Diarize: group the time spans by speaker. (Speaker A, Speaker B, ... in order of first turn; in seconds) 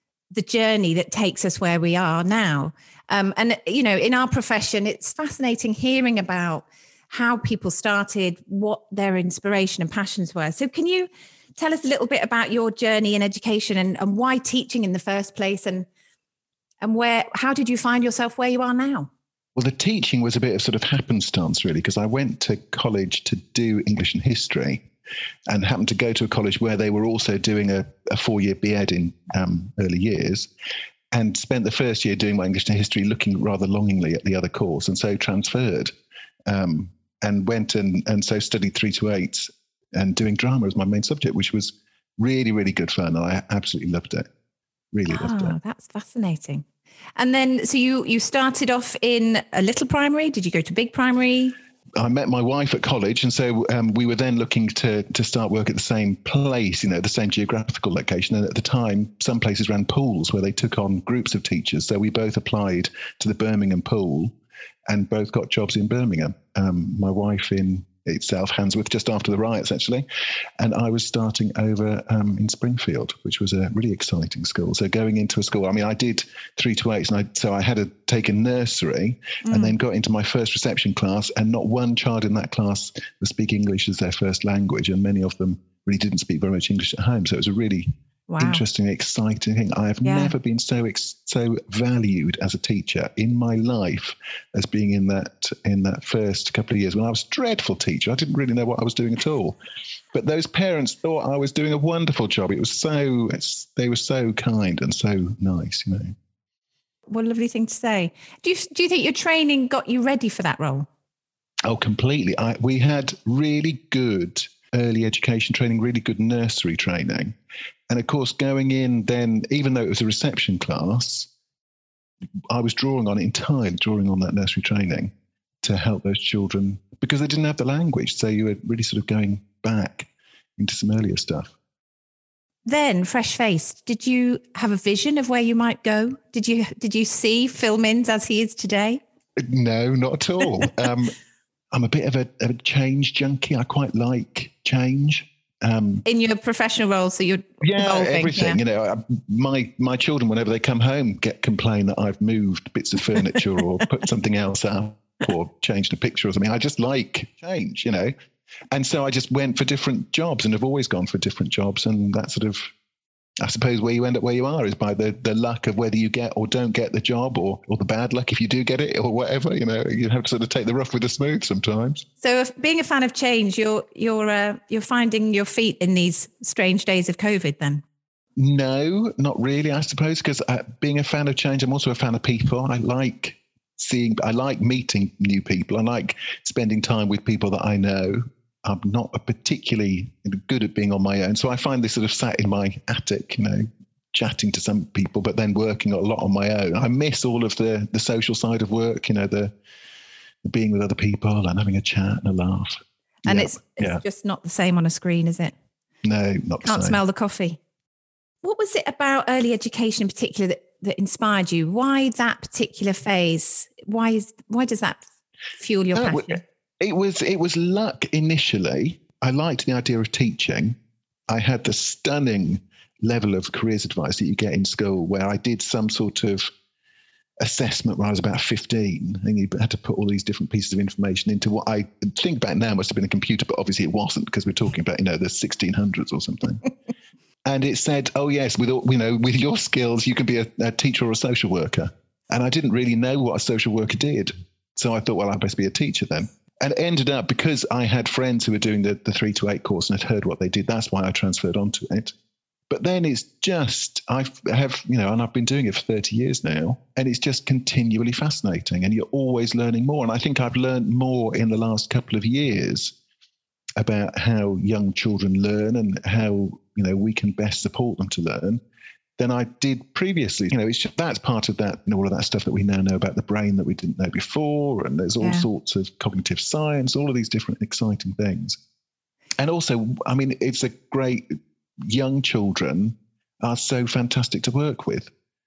Speaker A: 0.3-15.9, 16.8-19.1, 45.1-46.6, 47.2-51.5, 79.4-79.7, 88.3-88.6, 90.0-90.3, 107.1-110.9, 132.7-139.0, 146.1-148.6, 172.2-177.8, 203.2-205.5, 206.6-207.6, 208.4-215.0, 215.6-216.4, 275.2-275.4
Speaker B: 19.6-24.8, 25.5-30.5, 31.1-35.9, 36.5-44.3, 44.9-45.6, 52.0-64.3, 64.9-70.0, 70.6-99.6, 100.1-106.1, 111.7-117.3, 117.9-121.3, 122.5-131.5, 139.4-141.1, 141.7-146.0, 147.6-158.1, 158.7-162.7, 163.4-172.0, 178.4-199.5, 200.4-204.0, 206.0-207.0, 215.9-220.8, 221.3-226.5, 227.4-236.6, 237.4-252.1, 252.7-262.9, 263.8-268.6, 269.2-278.6, 279.4-285.1